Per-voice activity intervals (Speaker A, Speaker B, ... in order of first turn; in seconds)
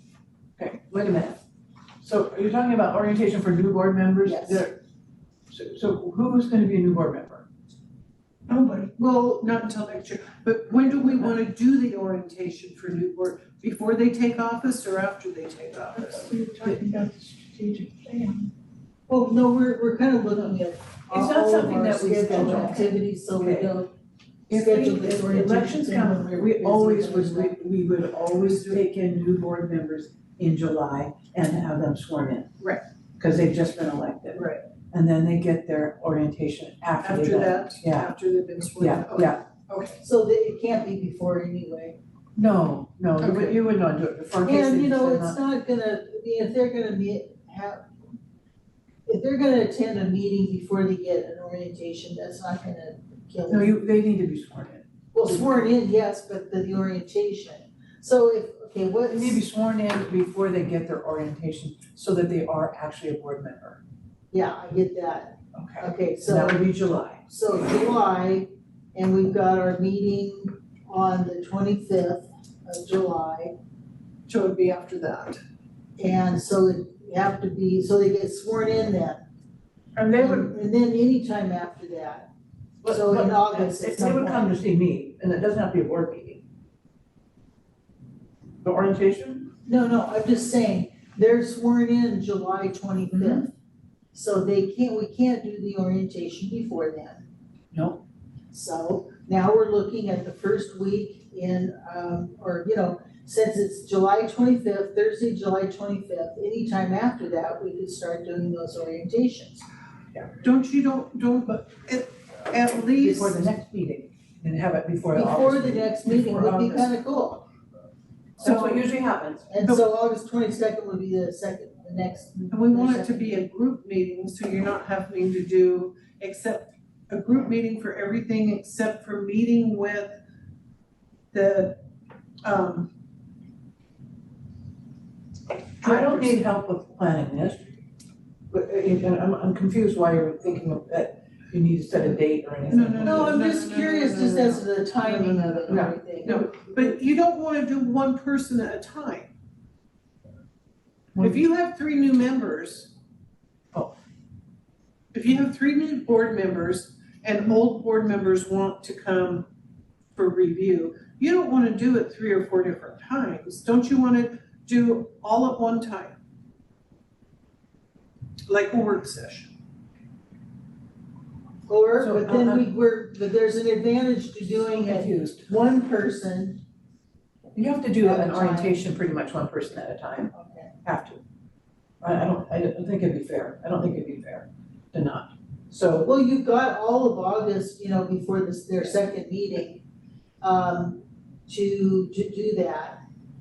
Speaker A: 0.6-1.4, 2.0-4.8, 5.5-7.5, 21.1-23.8, 24.5-32.6, 33.2-38.1, 38.8-39.4, 42.4-45.4, 53.5-55.8, 59.1-63.8, 65.5-67.2, 80.0-80.5, 82.8-86.4, 88.6-89.5, 93.1-93.5, 97.7-98.0, 113.0-117.0, 118.4-119.5, 135.8-137.7, 138.5-143.4, 145.7-146.1, 151.2-151.4, 172.0-172.7, 174.7-175.5, 177.6-180.3, 180.8-181.2, 182.0-186.1
Speaker B: 4.2-4.7, 19.1-23.9, 24.5-27.6, 40.0-42.0, 44.4-47.9, 49.1-53.8, 55.1-59.4, 64.3-66.7, 67.2-73.5, 76.0-79.2, 80.1-82.3, 82.9-84.5, 89.7-93.5, 94.1-97.2, 98.5-109.7, 115.1-117.4, 119.5-123.4, 143.0-146.5, 171.7-176.6, 178.0-178.8, 180.3-180.7, 186.0-189.8, 190.4-193.0
Speaker C: 8.5-8.9, 16.0-18.5
Speaker D: 8.9-16.3, 28.4-28.8, 34.4-34.6, 37.0-40.0, 43.2-43.6, 74.3-75.4, 110.4-113.4, 118.4-118.8, 122.5-130.2, 131.3-131.8, 132.4-132.9, 135.8-136.4, 142.7-149.3, 151.2-152.9, 155.1-159.5, 160.2-166.2, 168.5-169.5